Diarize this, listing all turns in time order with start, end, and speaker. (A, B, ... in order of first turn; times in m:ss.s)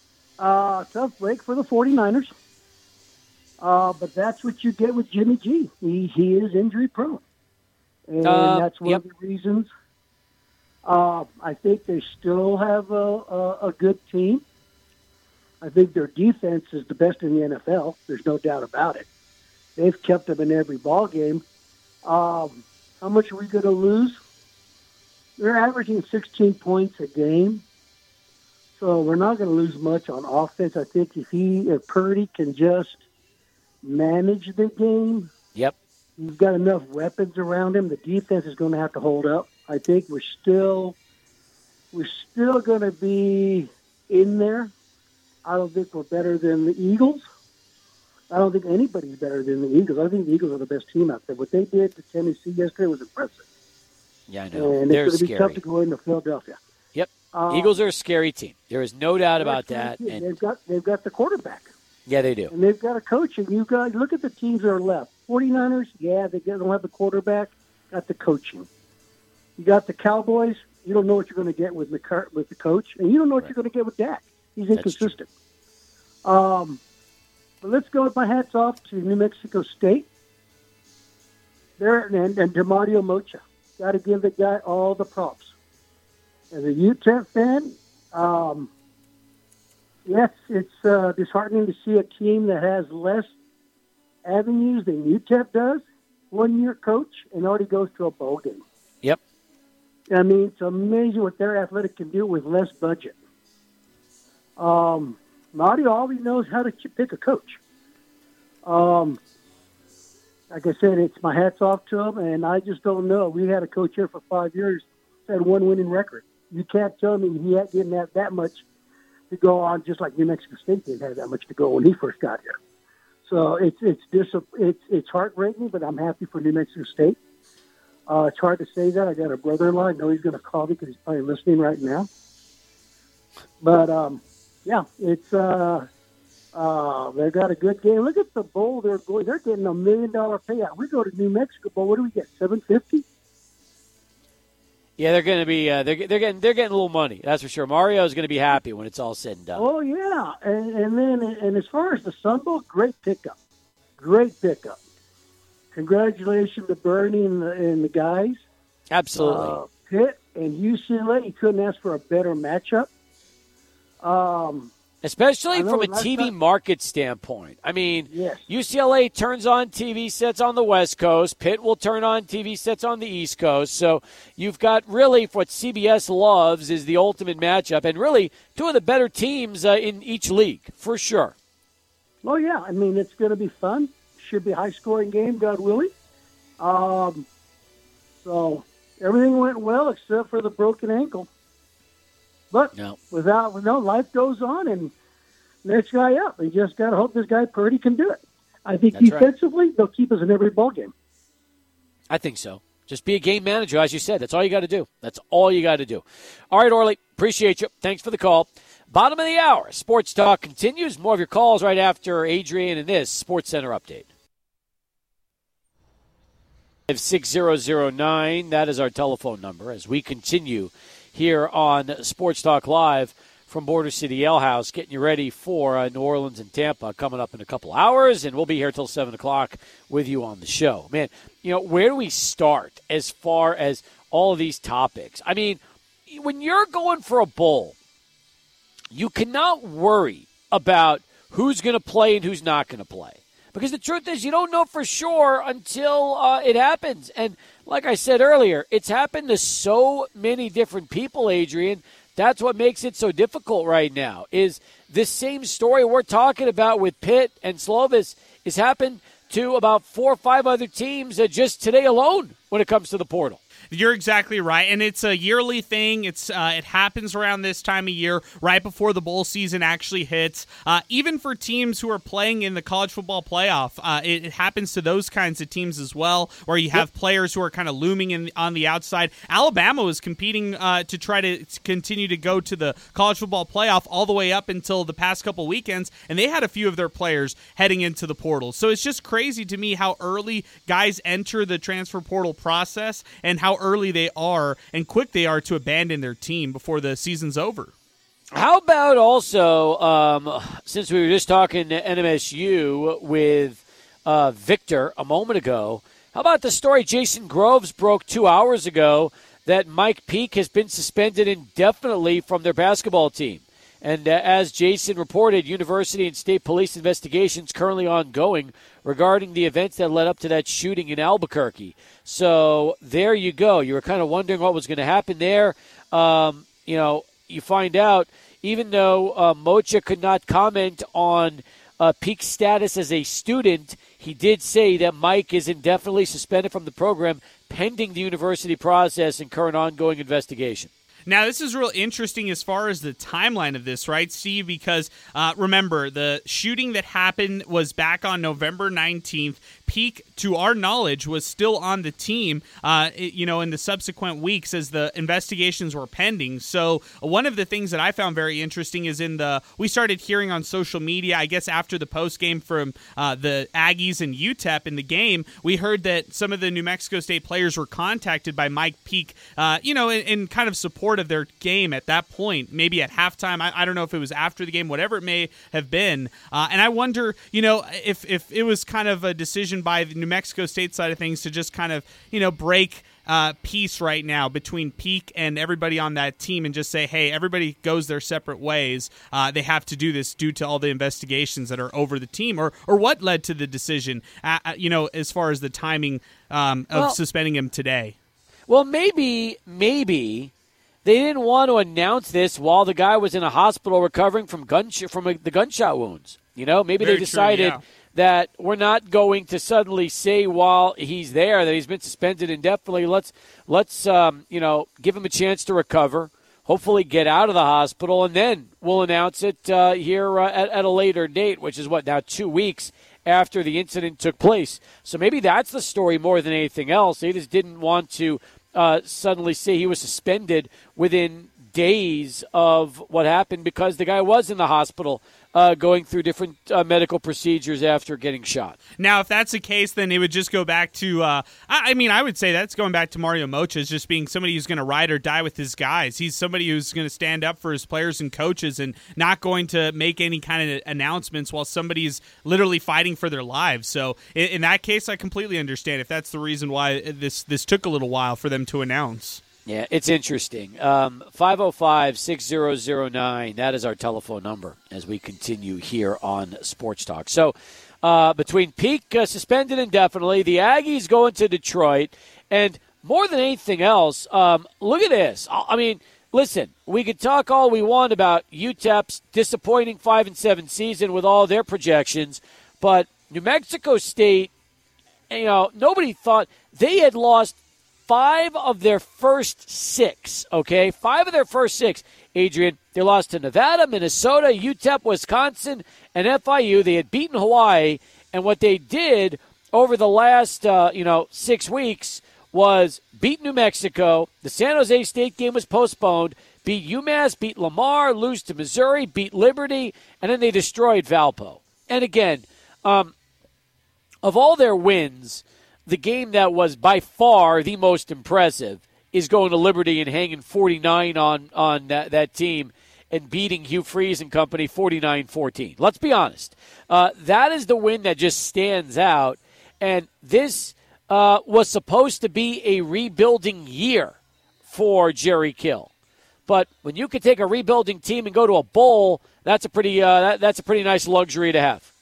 0:00.4-0:02.3 A
0:03.6-0:07.2 A
0:08.1-0:09.7 A
0:08.2-0:09.0 B
0:10.8-0:14.4 A
0:15.6-0:19.0 A
0:19.8-0:21.4 A
0:22.0-0:24.2 A
0:25.4-0:27.6 A
0:28.8-0:33.0 A
0:33.8-0:35.3 A
0:36.2-0:41.0 A
0:41.9-0:44.7 A
0:45.4-0:47.2 A
0:48.3-0:53.4 A
0:54.3-0:55.6 B
0:54.5-0:56.6 A
0:56.9-1:00.2 B
0:57.3-0:57.7 A
0:59.4-1:01.7 A
1:02.1-1:02.5 B
1:02.5-1:08.7 A
1:09.6-1:15.3 A
1:14.7-1:15.2 B
1:16.2-1:16.8 A
1:17.6-1:20.1 A
1:21.8-1:25.5 A
1:26.5-1:28.7 A
1:30.0-1:33.3 A
1:34.2-1:38.6 A
1:40.1-1:43.2 A
1:44.6-1:47.6 A
1:48.6-1:49.2 A
1:50.5-1:58.6 A
1:59.3-2:02.6 A
2:03.2-2:07.2 A
2:08.1-2:12.1 A
2:13.6-2:15.8 A
2:16.5-2:23.0 A
2:25.0-2:29.6 B
2:29.6-2:33.4 A
2:34.0-2:34.8 A
2:35.7-2:38.4 A
2:38.9-2:39.6 B
2:39.2-2:42.9 A
2:44.0-2:44.7 A
2:45.0-3:01.3 B
2:45.5-2:46.3 A
2:48.1-2:48.4 A
3:02.2-3:05.9 A
3:06.6-3:07.3 A
3:08.2-3:11.3 A
3:12.5-3:14.9 A
3:15.6-3:20.9 A
3:18.9-3:19.3 B
3:22.1-3:34.0 B
3:36.9-3:57.8 B
3:58.9-4:23.4 B
4:23.7-4:57.7 C
4:58.3-5:40.7 B
5:41.0-6:37.9 C
6:38.5-6:40.3 B
6:40.8-7:18.6 B
6:46.8-6:47.6 C
7:18.8-7:39.2 C
7:39.4-8:04.3 B
8:05.1-8:07.4 B
8:07.9-8:32.9 B
8:34.0-8:55.7 B
8:56.3-9:01.7 B